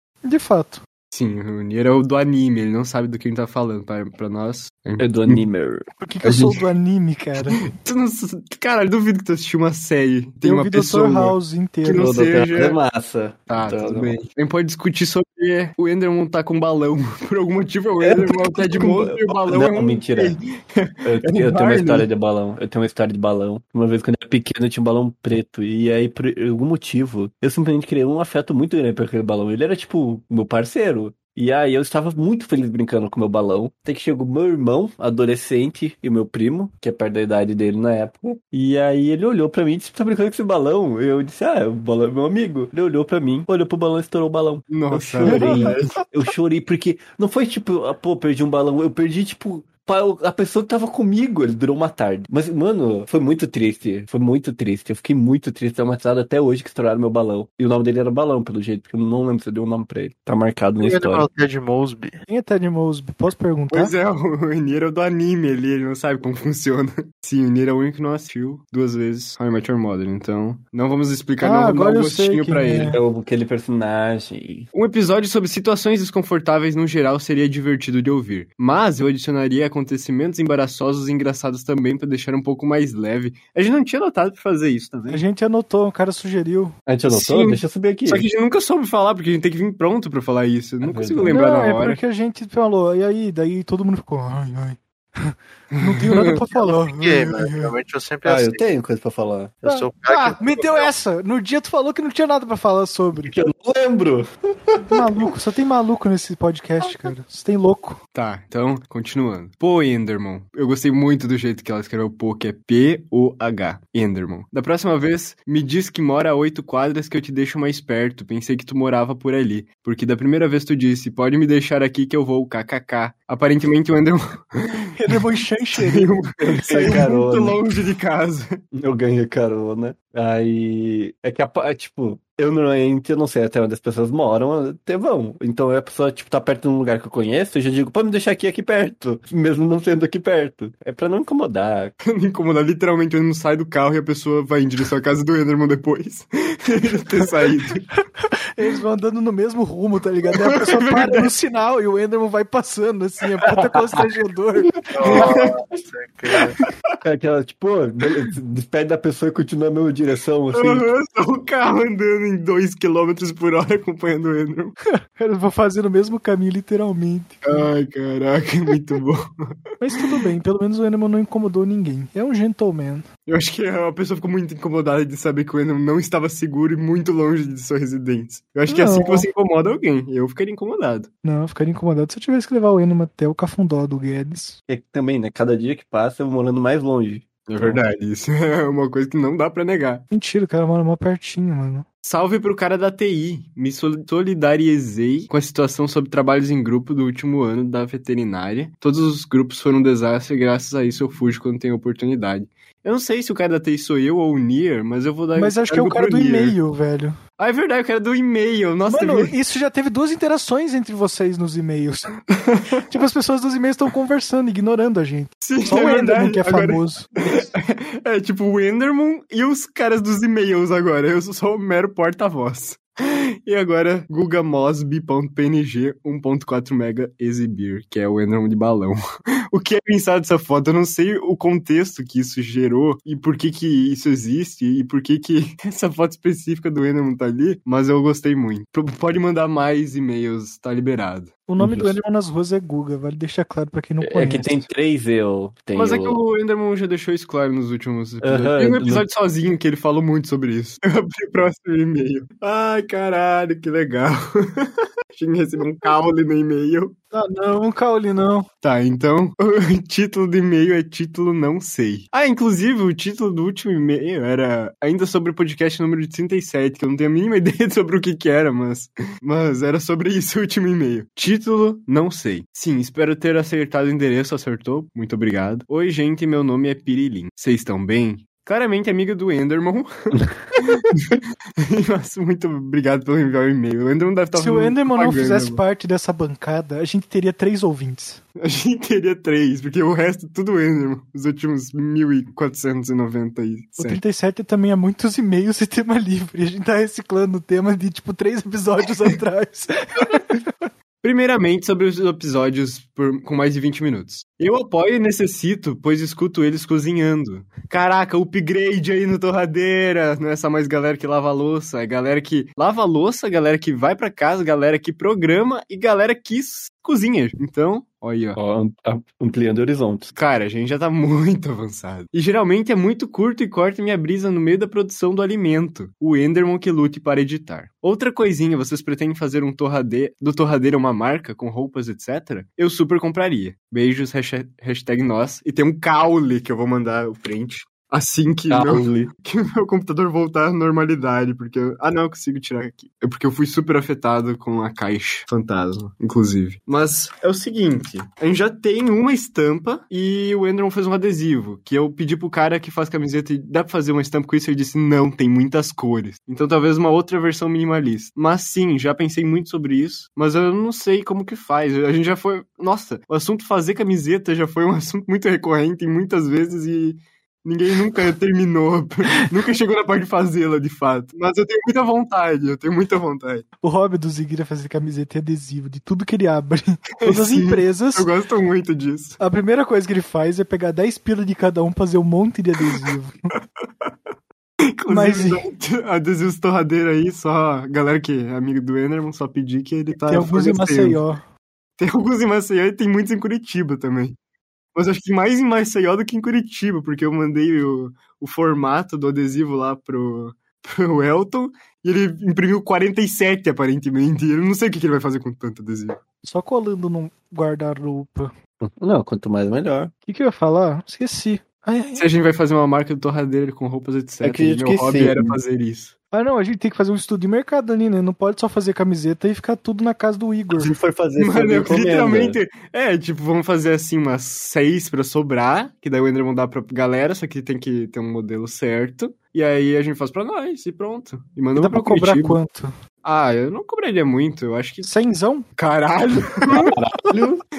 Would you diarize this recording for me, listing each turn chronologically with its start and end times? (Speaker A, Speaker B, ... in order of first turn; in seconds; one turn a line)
Speaker A: 0.2-0.8
Speaker B: 1.1-5.4
Speaker C: 5.0-6.6
Speaker A: 6.0-7.6
Speaker B: 7.8-12.8
Speaker A: 10.4-12.2
Speaker C: 12.0-14.2
Speaker B: 13.5-22.1
Speaker C: 18.0-20.4
Speaker C: 21.0-61.3
Speaker B: 44.7-45.9
Speaker A: 45.2-45.9
Speaker D: 60.8-62.1
Speaker A: 62.3-63.9
Speaker B: 63.7-73.0
Speaker A: 71.4-73.0
Speaker C: 72.9-74.7
Speaker B: 74.7-85.2
Speaker A: 85.1-86.7
Speaker C: 86.8-88.2
Speaker B: 87.1-92.0
Speaker C: 90.8-91.4
Speaker A: 91.3-94.8
Speaker A: 95.3-97.7
Speaker B: 95.8-96.4
Speaker D: 96.5-98.7
Speaker C: 98.2-99.5
Speaker D: 99.6-100.9
Speaker A: 99.6-103.3
Speaker C: 103.2-104.3
Speaker A: 104.8-108.0
Speaker B: 108.1-124.8
Speaker A: 125.0-126.1
Speaker B: 125.7-128.6
Speaker C: 126.4-127.6
Speaker C: 128.7-141.9
Speaker B: 142.0-147.8
Speaker A: 148.6-154.8
Speaker B: 150.3-151.3
Speaker D: 154.9-156.6
Speaker B: 155.1-155.5
Speaker C: 157.0-160.9
Speaker B: 160.5-164.8
Speaker A: 165.1-167.6
Speaker B: 167.4-169.3
Speaker A: 169.8-173.1
Speaker B: 173.3-181.1
Speaker A: 178.7-179.2
Speaker A: 181.2-184.6
Speaker C: 184.7-187.8
Speaker B: 187.5-190.0
Speaker A: 190.1-191.8
Speaker B: 192.0-206.6
Speaker A: 205.3-207.2
Speaker B: 207.4-209.3
Speaker A: 208.9-212.1
Speaker B: 212.3-212.8
Speaker A: 212.9-217.1
Speaker B: 215.4-229.0
Speaker B: 229.5-241.3
Speaker A: 241.4-244.7
Speaker C: 241.6-241.9
Speaker C: 244.0-246.2
Speaker B: 245.7-256.9
Speaker C: 248.2-249.0
Speaker A: 257.1-258.5
Speaker B: 258.6-285.6
Speaker A: 284.3-288.2
Speaker B: 288.4-294.0
Speaker A: 293.8-300.5
Speaker B: 301.0-318.4
Speaker C: 318.3-320.1
Speaker B: 320.1-373.4
Speaker C: 338.5-339.1
Speaker A: 373.6-378.1
Speaker B: 377.0-379.2
Speaker A: 379.2-383.1
Speaker B: 384.8-391.0
Speaker A: 384.9-385.4
Speaker A: 390.0-391.2
Speaker B: 391.8-394.2
Speaker B: 394.7-406.0
Speaker A: 406.2-408.3
Speaker C: 408.6-409.9
Speaker A: 410.1-412.1
Speaker B: 411.9-415.9
Speaker C: 414.2-415.3
Speaker A: 416.1-420.7
Speaker C: 420.5-422.4
Speaker B: 421.2-432.4
Speaker A: 431.5-432.7
Speaker B: 433.0-434.9
Speaker A: 434.8-435.4
Speaker B: 435.6-436.7
Speaker C: 436.5-437.4